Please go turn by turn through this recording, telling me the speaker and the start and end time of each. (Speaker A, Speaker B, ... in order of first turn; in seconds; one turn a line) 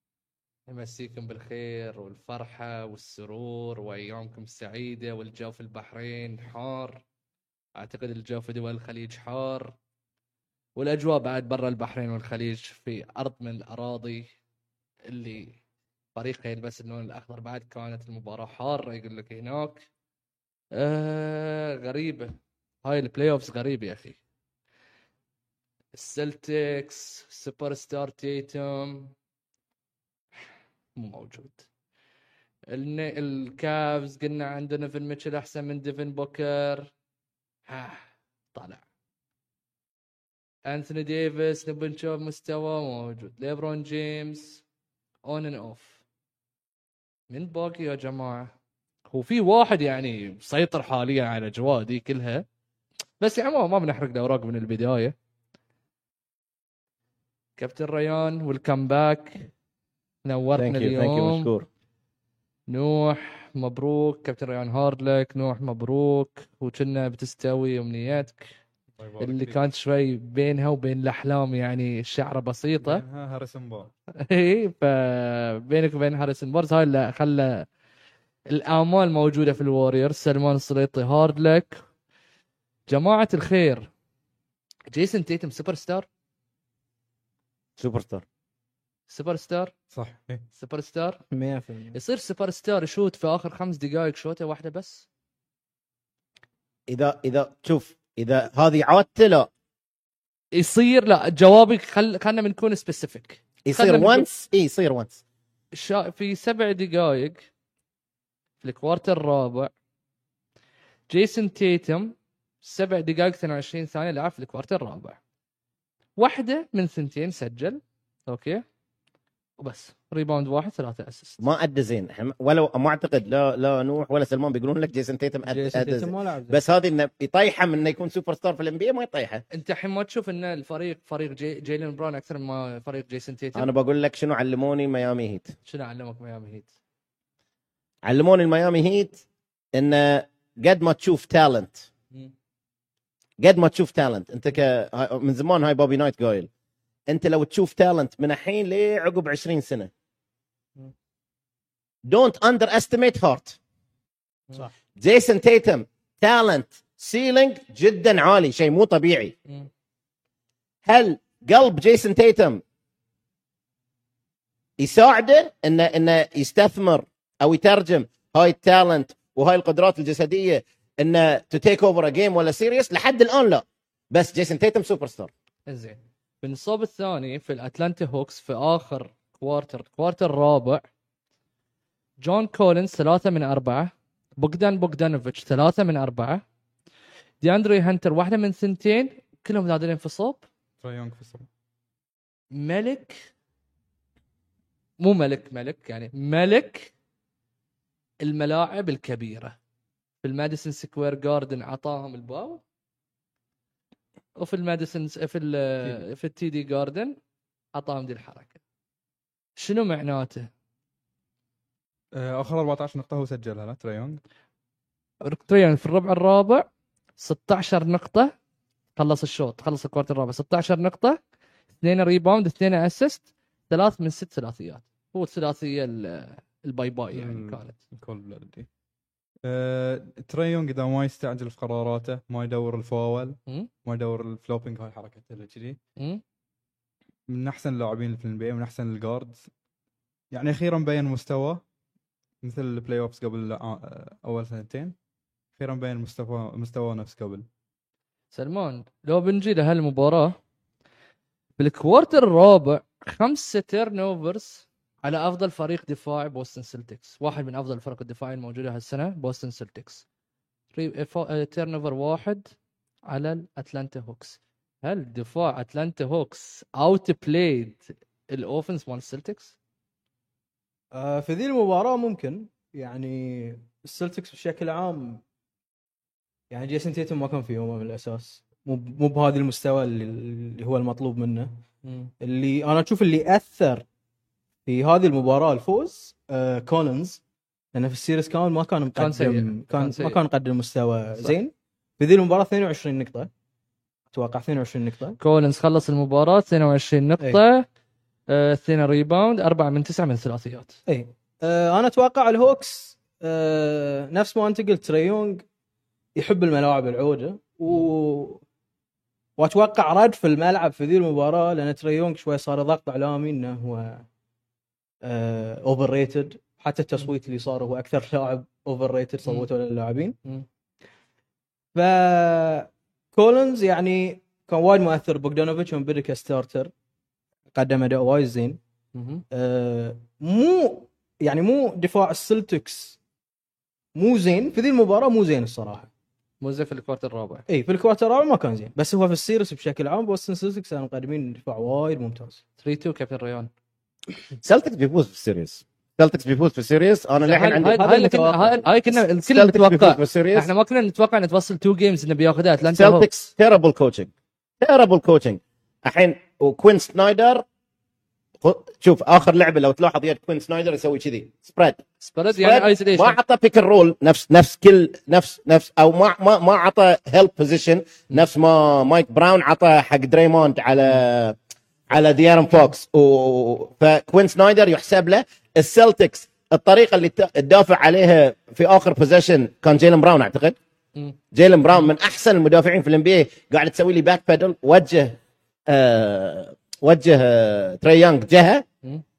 Speaker A: 0.7-7.0
Speaker A: 7.8-9.7
Speaker A: 10.8-14.3
Speaker A: 15.1-15.6
Speaker A: 16.1-19.9
Speaker A: 20.8-24.2
Speaker A: 25.9-29.1
Speaker A: 31.0-31.6
Speaker A: 32.7-36.9
Speaker A: 37.7-38.8
Speaker A: 40.7-44.6
Speaker A: 45.2-46.0
Speaker A: 47.3-48.5
Speaker A: 49.1-52.5
Speaker A: 53.2-55.1
Speaker A: 57.6-59.5
Speaker A: 60.2-61.5
Speaker B: 60.6-61.7
Speaker A: 62.7-68.5
Speaker C: 69.0-69.6
Speaker A: 69.2-73.0
Speaker C: 72.8-73.9
Speaker A: 74.2-77.7
Speaker A: 78.5-81.8
Speaker A: 82.9-83.9
Speaker A: 84.9-86.1
Speaker B: 87.8-88.2
Speaker A: 89.1-89.7
Speaker C: 89.9-90.4
Speaker A: 90.6-91.2
Speaker D: 91.3-92.0
Speaker A: 91.9-95.0
Speaker B: 96.9-99.5
Speaker A: 100.5-104.3
Speaker B: 103.6-105.2
Speaker A: 105.7-107.4
Speaker A: 108.6-109.7
Speaker A: 111.1-115.2
Speaker A: 116.2-118.6
Speaker A: 119.6-121.4
Speaker B: 121.4-129.4
Speaker D: 125.5-126.6
Speaker A: 129.5-133.7
Speaker B: 133.6-135.5
Speaker A: 135.7-136.7
Speaker B: 138.0-139.2
Speaker B: 139.7-141.9
Speaker B: 143.4-146.5
Speaker B: 147.1-149.9
Speaker B: 152.1-153.6
Speaker B: 155.0-159.3
Speaker B: 160.9-162.6
Speaker B: 164.8-175.3
Speaker A: 175.7-180.8
Speaker A: 182.2-186.4
Speaker A: 187.4-190.4
Speaker C: 190.8-191.5
Speaker A: 192.5-193.3
Speaker A: 195.0-196.9
Speaker A: 198.2-199.6
Speaker A: 200.2-202.6
Speaker A: 204.4-207.2
Speaker A: 207.7-208.6
Speaker A: 209.6-210.5
Speaker C: 212.1-214.2
Speaker A: 215.2-216.7
Speaker A: 217.2-218.3
Speaker A: 219.0-221.2
Speaker A: 221.8-227.8
Speaker C: 227.1-228.7
Speaker C: 229.4-235.8
Speaker C: 237.3-239.5
Speaker C: 240.3-241.6
Speaker C: 242.4-244.9
Speaker C: 245.6-247.5
Speaker A: 248.3-250.4
Speaker A: 251.6-260.1
Speaker A: 260.7-262.5
Speaker A: 263.1-269.6
Speaker D: 270.9-275.2
Speaker D: 276.5-281.6
Speaker A: 281.8-282.1
Speaker D: 282.2-283.9
Speaker D: 284.7-287.2
Speaker D: 287.7-293.3
Speaker A: 289.0-290.2
Speaker D: 294.1-295.2
Speaker A: 295.2-297.7
Speaker A: 298.3-300.8
Speaker D: 300.9-305.4
Speaker D: 306.1-308.4
Speaker D: 309.4-314.1
Speaker D: 315.0-320.2
Speaker D: 321.8-326.7
Speaker D: 327.5-328.6
Speaker A: 328.9-329.2
Speaker D: 329.3-333.0
Speaker D: 334.0-335.9
Speaker A: 336.4-337.5
Speaker D: 337.5-342.4
Speaker A: 342.6-343.5
Speaker B: 344.4-347.8
Speaker A: 347.2-353.1
Speaker D: 347.6-348.7
Speaker B: 349.2-350.5
Speaker B: 352.7-354.1
Speaker B: 354.6-357.4
Speaker B: 358.4-371.4
Speaker A: 362.0-363.2
Speaker B: 371.9-380.6
Speaker B: 381.3-388.6